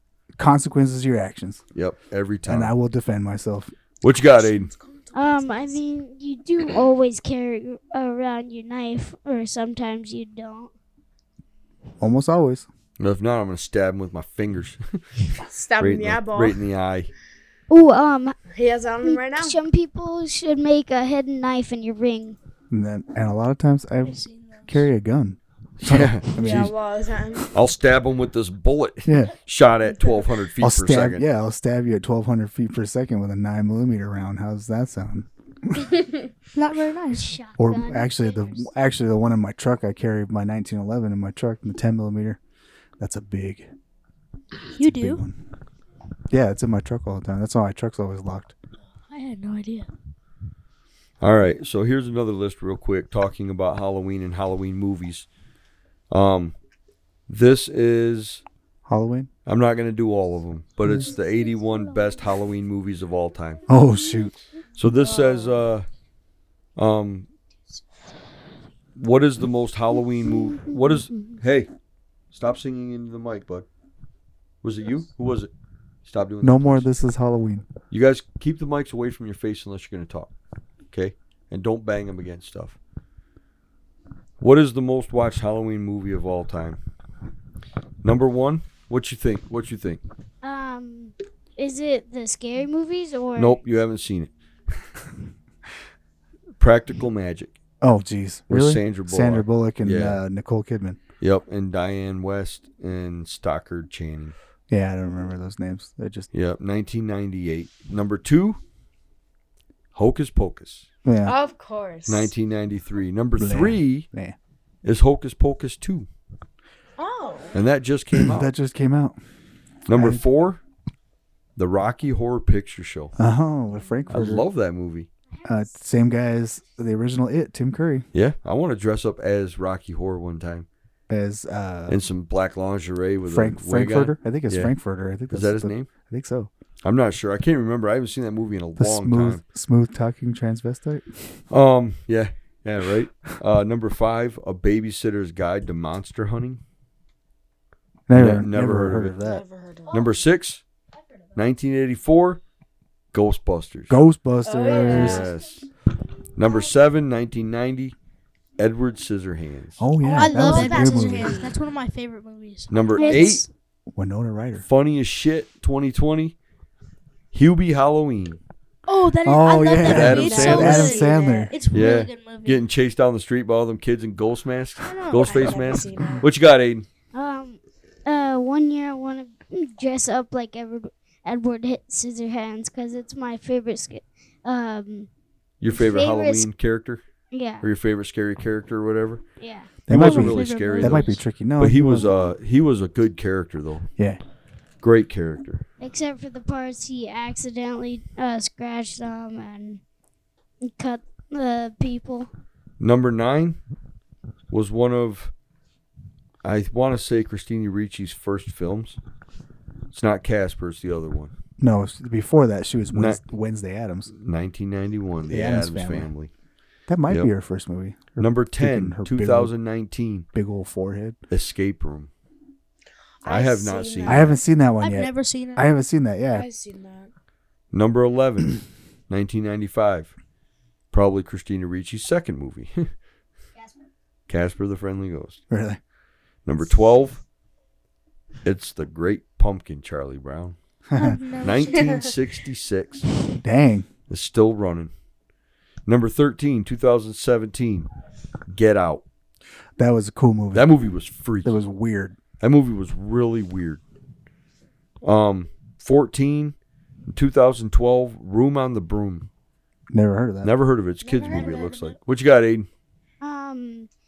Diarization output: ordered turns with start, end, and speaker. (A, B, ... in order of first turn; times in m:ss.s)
0:00.4-0:01.6 A
0:01.7-0:02.7 B
0:02.4-0:03.7 A
0:04.0-0:04.7 B
0:04.3-0:05.8 C
0:05.1-0:10.7 D
0:12.0-0:12.7 A
0:13.0-0:15.2 B
0:15.4-0:16.6 C
0:15.8-0:17.1 B
0:17.7-0:18.3 D
0:18.5-0:19.6 C
0:19.0-0:22.4 D
0:22.7-0:26.7 A
0:24.0-0:24.8 E
0:25.8-0:26.7 B
0:26.4-0:27.5 C
0:27.5-0:31.2 B
0:29.0-0:29.3 A
0:30.6-0:36.0 A
0:36.5-0:37.4 E
0:37.1-0:38.5 D
0:37.6-0:42.4 A
0:43.0-0:43.7 A
0:44.7-0:45.2 E
0:44.7-0:45.4 A
0:46.3-0:48.5 A
0:49.1-0:49.9 E
0:51.2-0:55.3 B
0:56.1-0:56.5 B
0:57.3-0:58.4 B
0:58.8-0:59.3 A
0:59.4-1:03.6 B
1:00.8-1:01.1 A
1:03.7-1:04.3 A
1:04.8-1:05.9 B
1:06.8-1:07.3 B
1:09.0-1:11.7 B
1:10.2-1:11.4 D
1:12.3-1:13.7 B
1:14.6-1:15.5 B
1:16.0-1:16.9 B
1:16.4-1:17.7 A
1:17.9-1:20.3 B
1:20.9-1:22.8 B
1:24.4-1:26.8 B
1:28.0-1:30.0 B
1:30.4-1:33.6 D
1:33.4-1:34.3 B
1:36.6-1:37.6 B
1:37.8-1:41.0 A
1:38.5-1:40.2 B
1:41.2-1:44.4 B
1:44.7-1:46.3 A
1:46.3-1:48.6 B
1:49.9-1:50.9 B
1:51.0-1:51.4 A
1:51.2-1:52.3 C
1:52.0-1:54.1 B
1:53.4-1:54.4 A
1:54.8-1:56.1 B
1:57.0-1:57.6 C
1:57.5-1:58.5 B
1:58.2-1:59.2 A
1:59.9-2:00.6 B
1:59.9-2:00.2 A
2:01.6-2:03.1 B
2:03.2-2:04.4 A
2:04.1-2:05.1 B
2:05.4-2:08.0 A
2:08.1-2:10.7 B
2:11.1-2:12.0 A
2:11.9-2:14.7 B
2:13.2-2:16.5 A
2:15.3-2:15.9 B
2:16.8-2:19.4 B
2:18.8-2:21.4 A
2:21.5-2:26.6 B
2:28.1-2:29.4 A
2:28.1-2:29.1 B
2:29.1-2:30.1 C
2:29.9-2:30.6 B
2:31.3-2:32.4 B
2:33.1-2:34.0 B
2:33.9-2:35.2 A
2:34.4-2:35.3 C
2:34.8-2:35.6 B
2:36.3-2:37.9 B
2:38.6-2:39.9 B
2:39.8-2:41.5 A
2:40.0-2:43.2 E
2:40.0-2:41.5 C
2:42.7-2:43.4 B
2:43.0-2:43.4 D
2:43.9-2:44.6 A
2:44.6-2:46.3 B
2:47.3-2:48.4 B
2:48.9-2:52.6 E
2:49.2-2:51.5 A
2:49.8-2:50.9 B
2:49.8-2:51.5 C
2:51.7-2:56.9 B
2:54.8-2:55.8 E
2:55.2-2:56.3 C
2:57.1-3:05.1 D
3:05.6-3:07.0 B
3:05.7-3:06.5 D
3:07.3-3:07.7 D
3:07.6-3:09.2 B
3:09.4-3:09.8 D
3:09.9-3:12.1 A
3:09.9-3:13.9 B
3:09.9-3:11.2 E
3:14.8-3:15.6 B
3:15.8-3:19.8 D
3:20.6-3:22.3 D
3:22.8-3:23.6 B
3:24.5-3:25.3 B
3:26.4-3:29.0 B
3:29.9-3:31.3 B
3:31.6-3:34.1 A
3:32.9-3:33.2 B
3:34.1-3:36.3 B
3:35.3-3:36.1 A
3:36.9-3:39.5 A
3:38.2-3:40.3 B
3:40.3-3:41.2 A
3:41.3-3:42.1 B
3:43.2-3:44.4 C
3:43.2-3:44.4 B
3:44.0-3:46.5 A
3:44.8-3:45.7 E
3:46.3-3:47.1 C
3:47.7-3:50.1 B
3:50.9-3:52.9 B
3:54.3-3:55.4 B
3:55.5-3:55.8 A
3:56.4-3:57.2 B
3:58.4-4:00.6 B
4:00.9-4:01.2 A
4:01.0-4:02.1 E
4:01.4-4:03.0 B
4:01.7-4:02.1 C
4:03.4-4:03.9 A
4:04.1-4:04.9 B
4:05.8-4:07.9 B
4:08.5-4:09.0 B
4:09.8-4:10.8 A
4:10.5-4:11.6 B
4:11.4-4:12.2 A
4:12.4-4:13.8 B
4:15.0-4:16.6 B
4:17.1-4:19.3 B
4:19.9-4:20.5 A
4:20.4-4:22.7 B
4:21.0-4:21.8 C
4:21.2-4:21.9 E
4:23.2-4:23.9 D